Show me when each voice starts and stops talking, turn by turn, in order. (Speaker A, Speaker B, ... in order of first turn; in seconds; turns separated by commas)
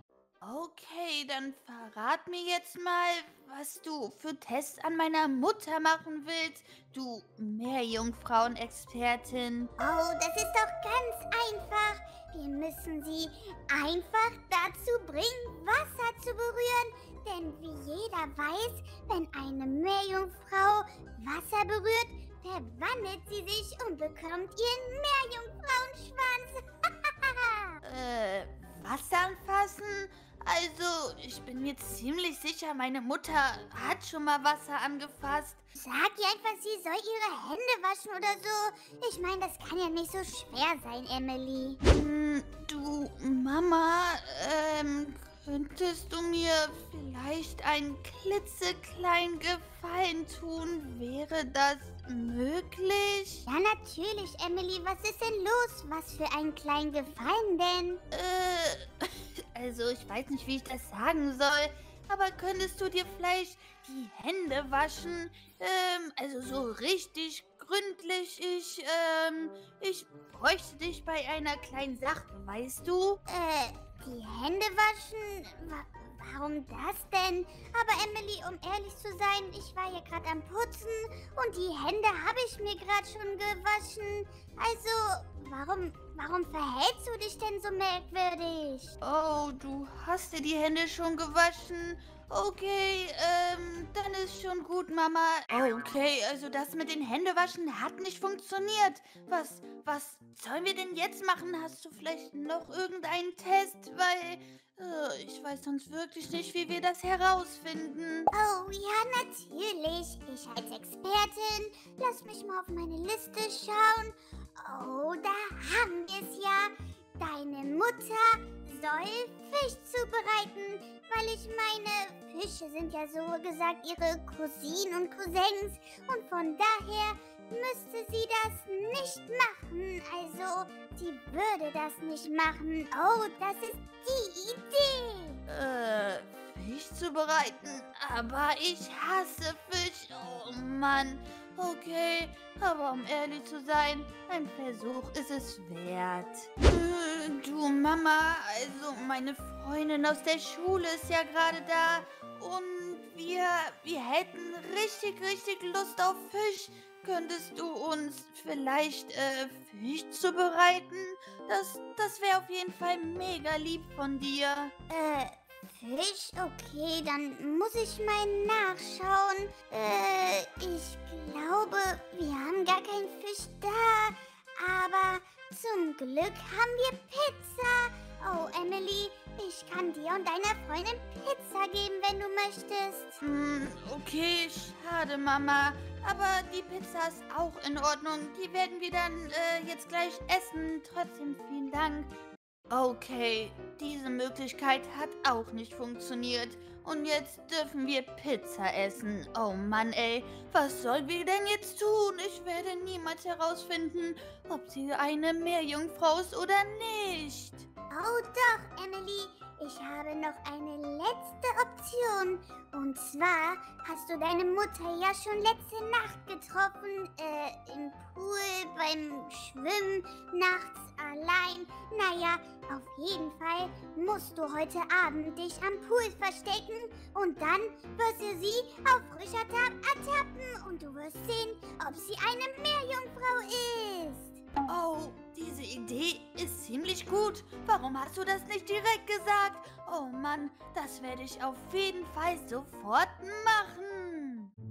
Speaker A: 0.4-9.7, Speaker B: 9.8-27.8, Speaker A: 27.8-35.6, Speaker B: 35.8-41.8, Speaker A: 41.9-53.5, Speaker B: 53.5-58.0, Speaker A: 58.1-73.2, Speaker B: 73.3-89.0, Speaker A: 89.0-108.3, Speaker B: 108.3-135.4, Speaker A: 135.5-164.7, Speaker B: 164.9-183.2, Speaker A: 183.2-192.1, Speaker A: 192.7-207.7, Speaker B: 207.9-234.4, Speaker A: 234.7-244.5